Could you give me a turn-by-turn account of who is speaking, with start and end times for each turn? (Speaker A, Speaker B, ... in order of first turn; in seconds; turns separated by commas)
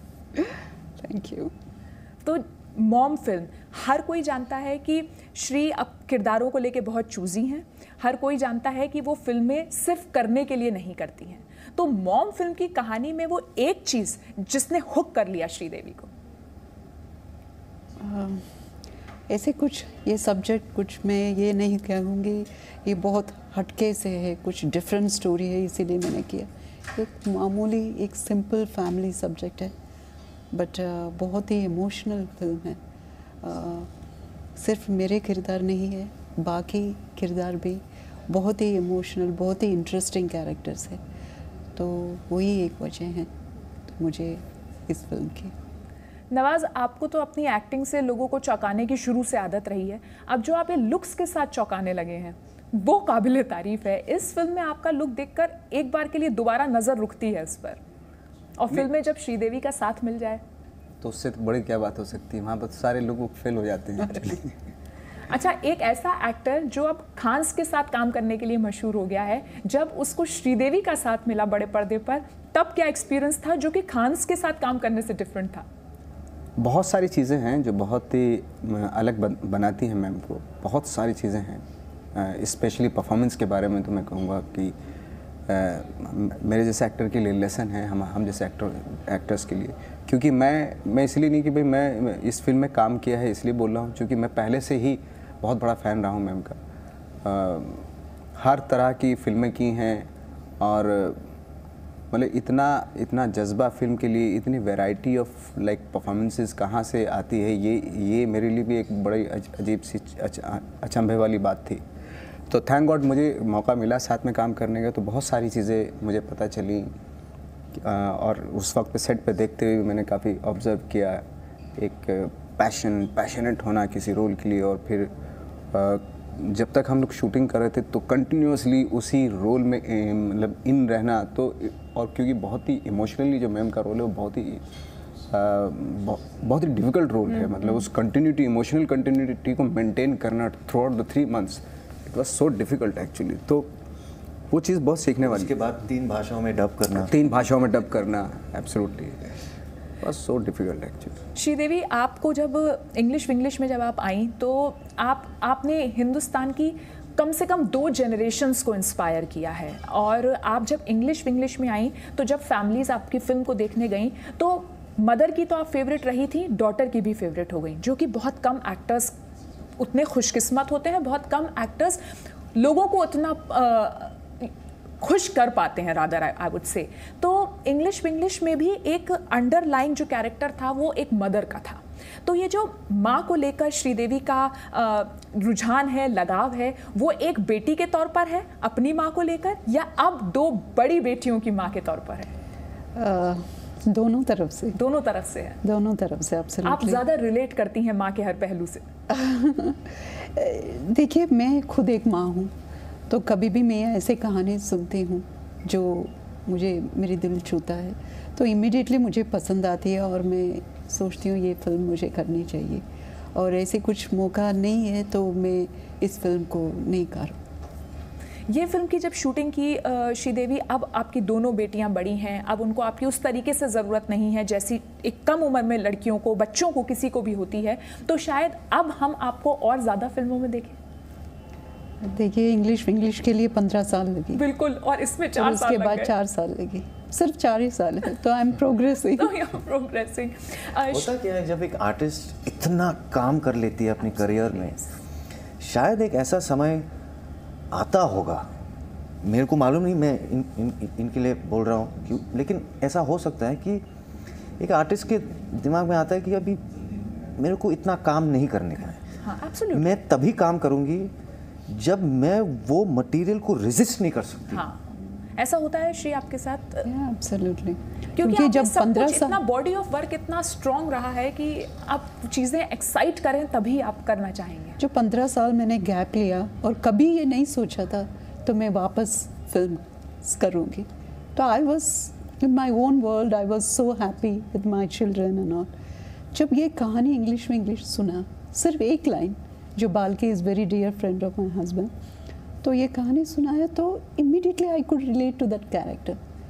Speaker A: 0.3-1.5, Speaker B: 2.2-16.1, Speaker A: 18.0-18.4, Speaker A: 19.3-29.7, Speaker A: 30.5-32.8, Speaker A: 33.4-33.9, Speaker A: 34.5-41.0, Speaker A: 41.7-43.3, Speaker A: 43.9-45.5, Speaker B: 46.3-57.8, Speaker B: 58.6-60.4, Speaker C: 61.0-64.5, Speaker B: 65.3-75.6, Speaker C: 76.6-81.6, Speaker C: 82.1-84.7, Speaker C: 85.5-96.5, Speaker C: 97.2-97.8, Speaker C: 98.4-100.1, Speaker C: 100.6-101.2, Speaker C: 102.1-111.8, Speaker C: 112.5-116.9, Speaker C: 117.8-121.2, Speaker C: 121.8-125.1, Speaker C: 125.7-134.6, Speaker C: 135.3-143.7, Speaker C: 144.5-145.5, Speaker D: 145.2-147.1, Speaker C: 146.9-149.3, Speaker C: 150.0-151.2, Speaker B: 151.3-169.1, Speaker B: 169.8-172.0, Speaker B: 172.5-192.3, Speaker A: 192.9-194.8, Speaker B: 194.8-195.6, Speaker A: 195.6-197.0, Speaker B: 196.6-198.8, Speaker A: 199.1-202.5, Speaker A: 203.1-212.8, Speaker A: 213.3-217.4, Speaker B: 218.5-230.8, Speaker A: 232.0-234.4, Speaker B: 234.3-236.1, Speaker A: 235.3-239.3, Speaker B: 239.1-241.1, Speaker D: 240.9-244.7, Speaker B: 244.1-244.9, Speaker D: 245.6-246.8, Speaker D: 247.7-248.4, Speaker D: 249.2-253.8, Speaker D: 254.6-256.7, Speaker D: 257.3-259.0, Speaker B: 259.2-259.9, Speaker D: 259.7-261.1, Speaker D: 261.7-264.6, Speaker B: 264.5-266.9, Speaker A: 266.8-269.4, Speaker B: 268.1-274.8, Speaker A: 274.8-285.7, Speaker A: 286.3-291.9, Speaker A: 292.6-296.2